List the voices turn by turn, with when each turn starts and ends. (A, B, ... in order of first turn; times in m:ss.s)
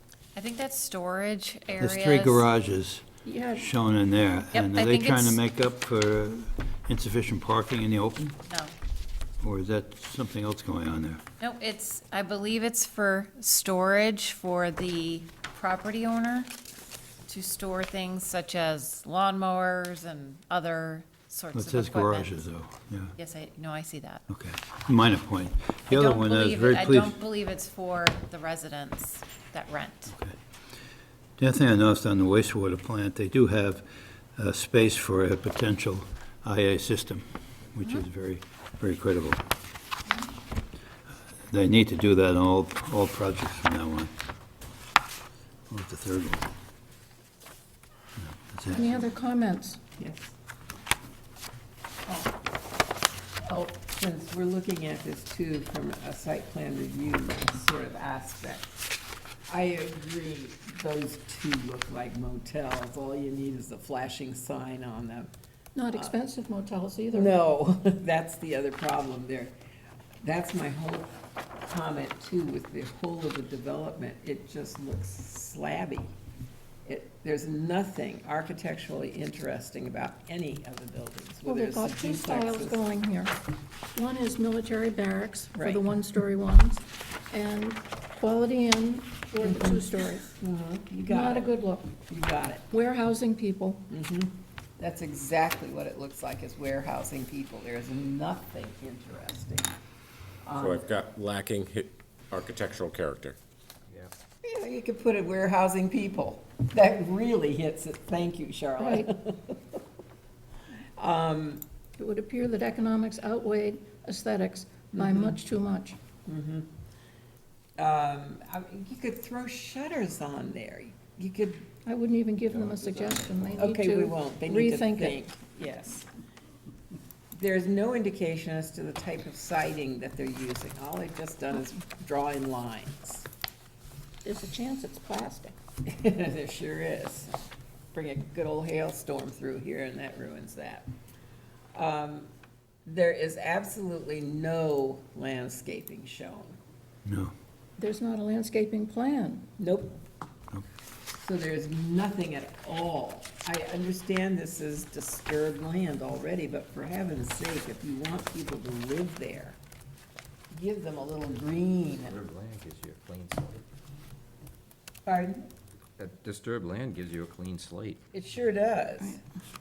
0:00.3-0:02.4 A
0:01.8-0:03.0 B
0:03.2-0:03.7 C
0:03.5-0:08.3 B
0:04.5-0:05.4 A
0:08.5-0:08.7 A
0:09.4-0:11.2 B
0:11.4-0:16.5 A
0:17.2-0:22.4 A
0:21.5-0:23.1 B
0:23.2-0:24.2 A
0:24.3-0:27.2 B
0:25.9-0:30.1 A
0:30.1-0:30.4 B
0:31.4-0:39.4 B
0:41.5-0:44.1 B
0:45.7-0:46.5 B
0:48.2-0:49.0 B
0:48.7-0:49.8 C
0:50.0-0:50.3 D
0:53.5-0:58.7 D
0:59.5-1:05.3 D
1:05.7-1:07.3 C
1:07.1-1:09.5 D
1:10.2-1:16.1 D
1:16.8-1:22.8 D
1:21.4-1:23.3 C
1:23.9-1:30.3 C
1:25.6-1:25.8 D
1:29.4-1:31.5 D
1:31.1-1:31.9 C
1:32.1-1:32.6 D
1:32.7-1:33.8 C
1:33.9-1:39.7 D
1:40.4-1:40.8 D
1:40.5-1:43.4 E
1:44.4-1:49.8 D
1:48.8-1:49.1 C
1:51.0-1:51.6 D
1:52.0-1:56.0 C
1:54.9-1:55.3 D
1:56.2-1:56.7 D
1:57.8-2:01.7 D
2:01.8-2:05.2 C
2:02.6-2:03.4 F
2:03.6-2:06.1 D
2:07.3-2:13.3 D
2:14.2-2:15.5 C
2:15.8-2:17.4 D
2:17.9-2:20.9 D
2:21.7-2:22.3 D
2:22.8-2:26.6 D
2:27.0-2:27.3 B
2:27.8-2:29.5 C
2:29.6-2:30.0 D
2:31.2-2:39.6 D
2:40.5-2:42.1 D
2:41.9-2:43.6 F
2:45.0-2:45.5 D
2:46.0-2:48.0 F
2:48.1-2:49.2 D